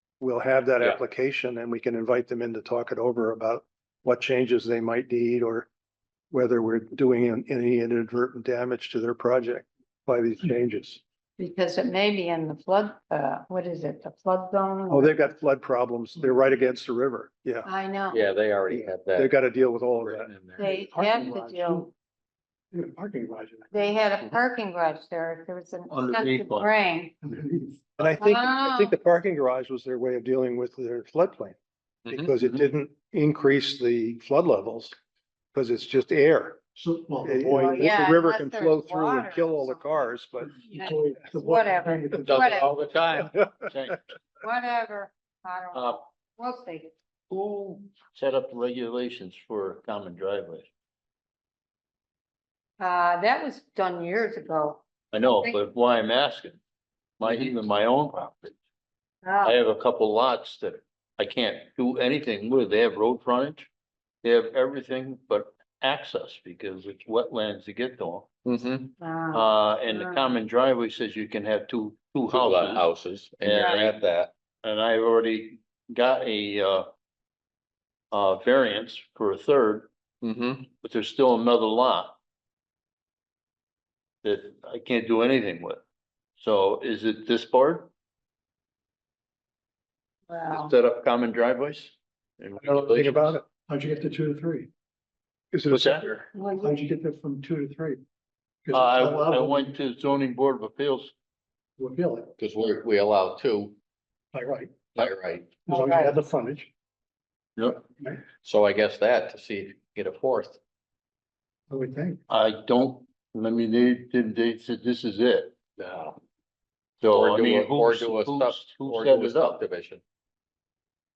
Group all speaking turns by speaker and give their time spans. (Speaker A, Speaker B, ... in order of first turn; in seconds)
Speaker A: 0.2-5.7, 6.3-11.0, 14.9-17.7, 18.7-20.5, 28.0-31.5, 32.1-35.0, 35.5-36.6, 37.2-40.6, 43.3-43.6, 92.6-93.5, 95.5-96.1
Speaker B: 11.4-15.1, 17.6-18.3, 20.5-21.9, 23.7-27.1, 28.2-28.9, 37.6-42.7, 44.4-46.9, 52.8-54.8, 59.2-59.6, 69.0-70.4, 90.3-90.7, 96.3-96.8, 105.7-106.2
Speaker C: 18.1-20.7, 32.0-32.3, 42.3-43.3, 57.2-57.5, 68.5-68.9, 72.3-74.3, 80.2-80.7, 92.7-93.3, 102.4-103.8, 105.0-105.5, 108.4-110.6, 115.8-116.2, 117.1-120.0
Speaker D: 20.6-21.9, 22.7-24.0, 27.2-28.1, 36.8-38.2, 40.6-42.7, 93.6-94.7, 96.6-98.0, 98.6-99.7, 101.8-102.3, 104.3-104.8, 105.7-106.7, 111.7-112.2
Speaker E: 25.9-26.7, 32.4-32.7, 43.7-44.0, 45.7-46.0, 47.3-50.7, 55.1-56.6, 57.2-58.6, 59.4-63.7, 64.2-68.3, 69.3-72.9, 73.4-74.0, 74.6-76.9, 78.1-79.9, 80.8-82.1, 84.2-85.8, 86.4-87.9, 90.5-93.0, 95.7-96.2, 98.7-101.1, 107.6-107.8, 112.3-115.5, 117.0-119.6